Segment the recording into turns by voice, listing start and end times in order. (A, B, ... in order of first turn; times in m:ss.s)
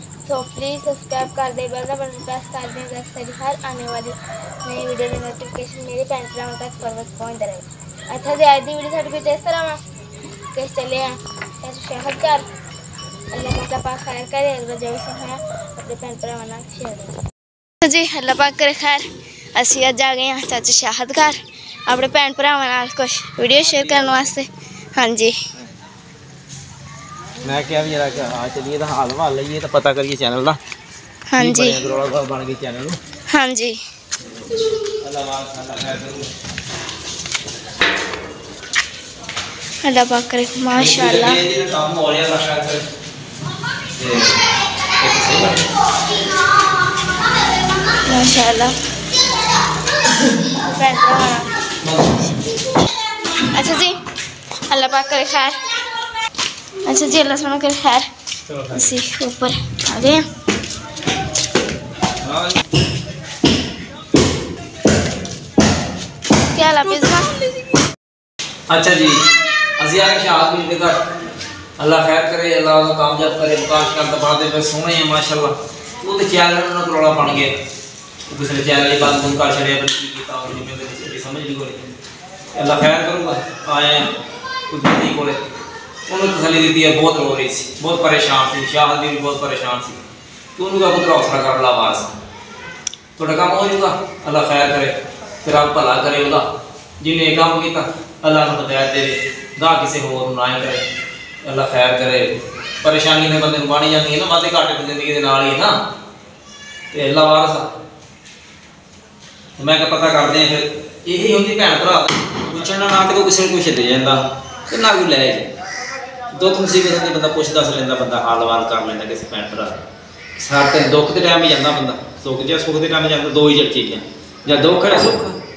0:00.2-0:09.8 A
0:10.5-0:12.4 A
0:13.3-0:17.2 A
0:17.8-0:25.4 A
0:27.4-0:30.6 B
0:31.3-0:31.8 A
0:31.4-0:33.0 B
0:33.3-0:33.8 A
0:34.2-0:36.3 B
0:39.8-0:41.4 A
0:40.7-0:42.8 B
0:44.0-0:44.3 B
0:45.0-0:45.6 B
0:48.0-0:48.7 A
0:50.6-0:51.5 A
0:51.8-0:52.2 B
0:53.5-0:54.0 A
0:54.7-0:55.6 A
0:56.8-0:58.0 A
0:58.5-0:58.9 B
0:58.7-1:00.2 A
1:02.2-1:02.6 B
1:06.5-1:07.3 A
1:08.7-1:09.2 B
1:09.8-1:10.9 B
1:11.8-1:17.5 B
1:18.3-1:21.8 B
1:22.5-1:24.1 B
1:24.7-1:25.4 B
1:26.1-1:30.0 B
1:30.6-1:32.1 B
1:33.2-1:36.5 B
1:37.0-1:40.8 B
1:41.4-1:45.8 B
1:46.9-1:47.7 B
1:49.6-1:55.5 B
1:56.3-1:59.8 B
2:00.4-2:05.4 B